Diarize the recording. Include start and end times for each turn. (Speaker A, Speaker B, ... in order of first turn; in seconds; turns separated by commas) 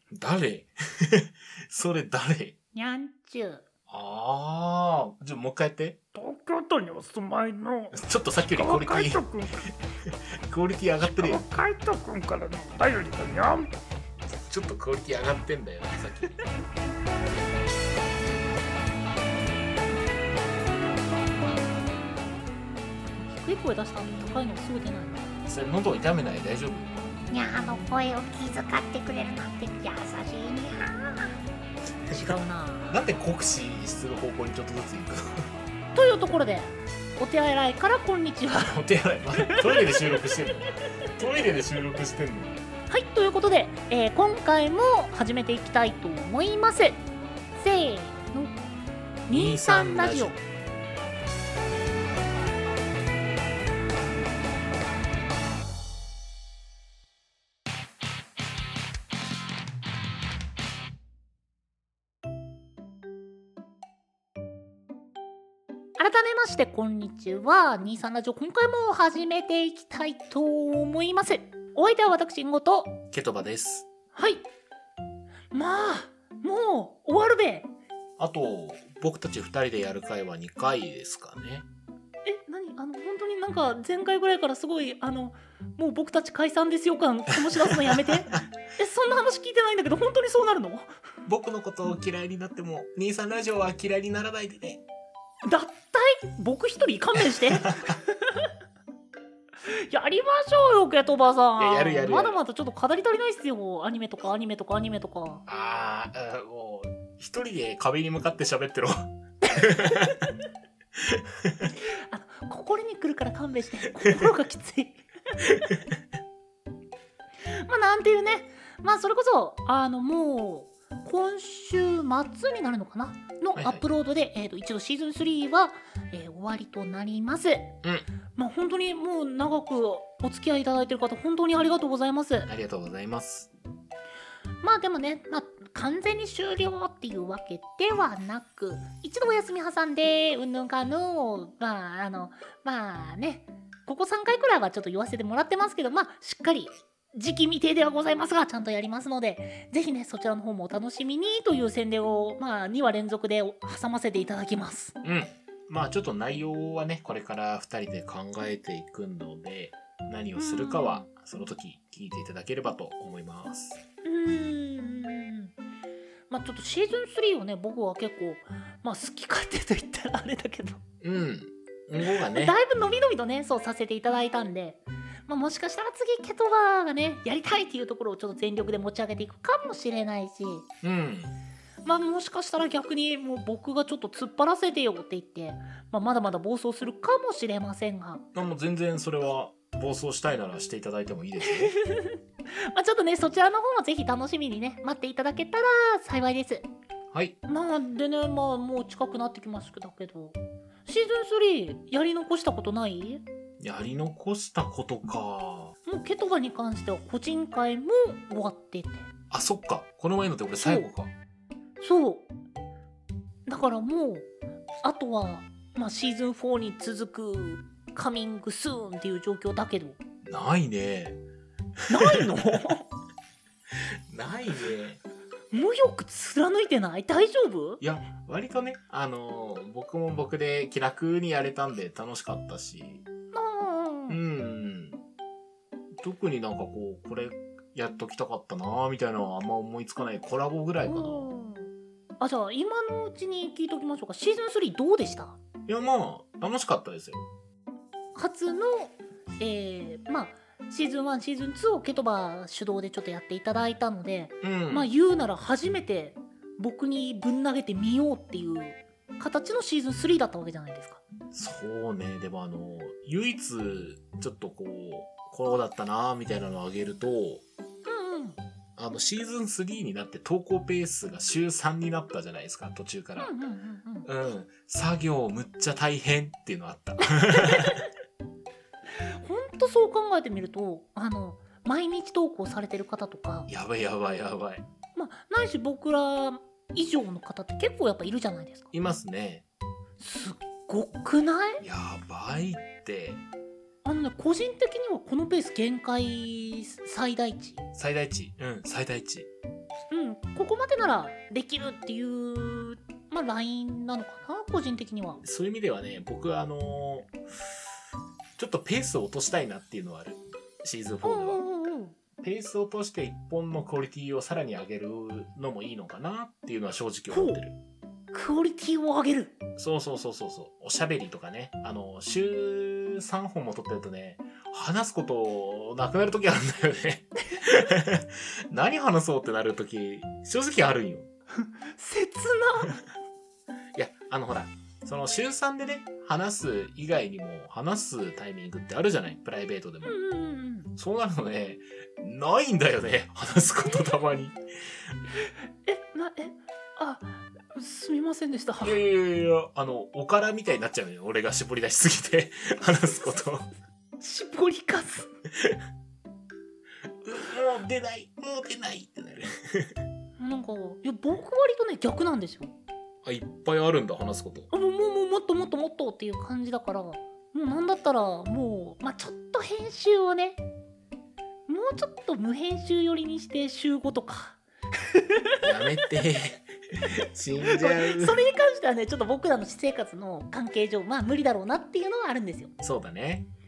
Speaker A: 0.2-2.5, Speaker B: 2.7-3.6, Speaker A: 3.9-6.0, Speaker C: 6.2-9.7, Speaker A: 7.9-9.2, Speaker A: 10.1-11.5, Speaker C: 11.2-13.8, Speaker A: 14.3-16.4, Speaker B: 23.2-25.3, Speaker A: 25.5-27.1, Speaker B: 27.3-31.4, Speaker A: 32.1-32.4, Speaker B: 32.1-33.0, Speaker A: 32.9-35.5, Speaker B: 36.0-38.8, Speaker A: 38.6-42.6, Speaker B: 39.4-40.1, Speaker B: 42.9-47.0, Speaker B: 47.6-48.6, Speaker B: 49.3-50.4, Speaker A: 49.3-50.4, Speaker B: 66.0-73.0, Speaker A: 73.1-73.9, Speaker B: 74.1-74.5, Speaker B: 75.5-77.7, Speaker A: 78.2-81.7, Speaker B: 82.2-90.9, Speaker A: 87.7-88.1, Speaker A: 91.2-94.8, Speaker B: 95.5-98.5, Speaker A: 97.3-98.0, Speaker B: 99.7-105.4, Speaker A: 101.6-102.4, Speaker A: 105.5-110.2, Speaker A: 111.1-111.7, Speaker B: 112.0-115.0, Speaker B: 117.5-127.7, Speaker A: 123.6-123.8, Speaker B: 128.4-132.5, Speaker A: 132.5-133.5, Speaker B: 134.6-154.9, Speaker A: 155.0-163.8, Speaker B: 160.4-161.1, Speaker B: 164.0-165.5, Speaker B: 166.3-170.8, Speaker A: 171.0-172.6, Speaker B: 172.0-180.7, Speaker A: 180.8-181.4, Speaker B: 181.8-188.3, Speaker A: 188.3-191.8, Speaker B: 191.5-192.2, Speaker B: 192.7-196.7, Speaker B: 197.5-203.2, Speaker A: 203.6-205.7, Speaker B: 205.9-209.1, Speaker A: 209.3-211.1, Speaker B: 210.6-210.9, Speaker B: 211.8-212.3, Speaker B: 213.5-214.3, Speaker B: 214.8-220.0, Speaker A: 220.2-221.2, Speaker B: 221.9-222.9, Speaker A: 224.1-225.0, Speaker B: 225.5-227.8, Speaker A: 227.8-233.1, Speaker B: 233.3-234.2, Speaker A: 234.1-235.0, Speaker A: 236.0-241.3, Speaker B: 240.9-245.4, Speaker A: 245.7-247.3, Speaker B: 248.2-261.0, Speaker A: 254.4-254.9, Speaker A: 261.3-267.4, Speaker B: 267.9-268.4, Speaker A: 268.8-273.3, Speaker B: 273.2-274.1, Speaker A: 274.1-277.8, Speaker B: 277.3-277.8, Speaker B: 279.0-283.5, Speaker A: 283.5-284.6, Speaker B: 284.9-288.7, Speaker A: 288.7-289.4, Speaker B: 290.0-291.6, Speaker A: 291.6-293.2, Speaker B: 293.8-297.6, Speaker A: 297.8-299.3, Speaker B: 299.9-305.2, Speaker A: 305.2-307.1, Speaker A: 308.4-311.4, Speaker B: 311.0-312.0, Speaker A: 312.2-317.6, Speaker B: 317.1-317.4, Speaker B: 318.1-319.4, Speaker A: 319.6-331.1, Speaker B: 331.4-332.8, Speaker A: 333.8-340.0, Speaker B: 339.8-340.7, Speaker A: 340.8-344.4, Speaker B: 345.7-348.8, Speaker A: 348.6-353.5, Speaker B: 354.0-355.1, Speaker A: 357.0-359.7, Speaker B: 360.2-362.6, Speaker A: 363.0-364.5, Speaker B: 364.5-370.4, Speaker B: 371.5-375.3, Speaker A: 375.4-378.2, Speaker B: 377.5-382.5, Speaker A: 382.6-383.3